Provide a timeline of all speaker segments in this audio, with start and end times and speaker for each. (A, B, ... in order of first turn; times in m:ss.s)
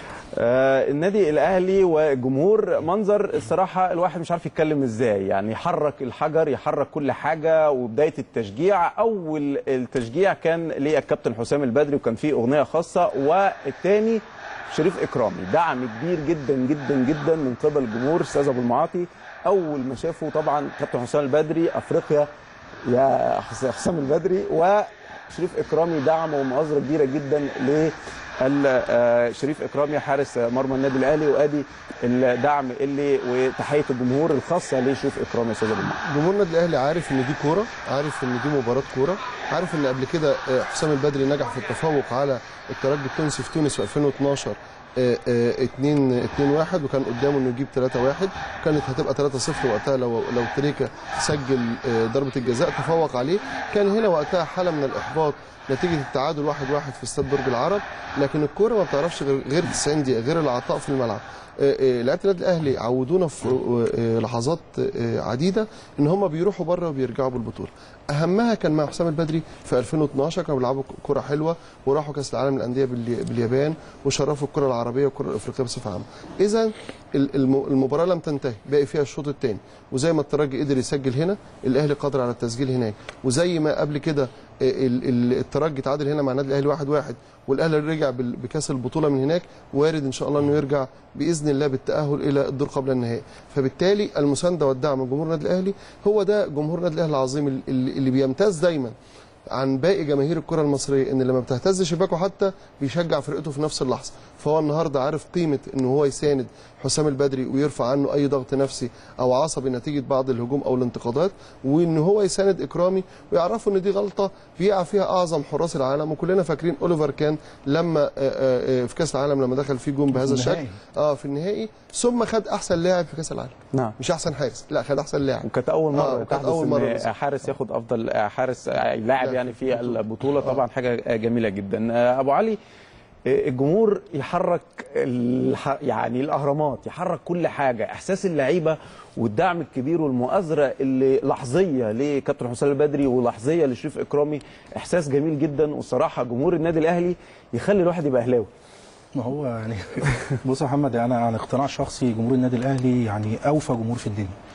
0:00.3-0:22.3 A
0:22.9-0:36.0 A
0:36.0-1:39.0 B
1:39.5-2:07.1 B
2:00.1-2:00.8 C
2:05.4-2:12.6 A
2:09.2-2:10.6 B
2:13.2-2:28.5 A
2:29.1-2:34.3 C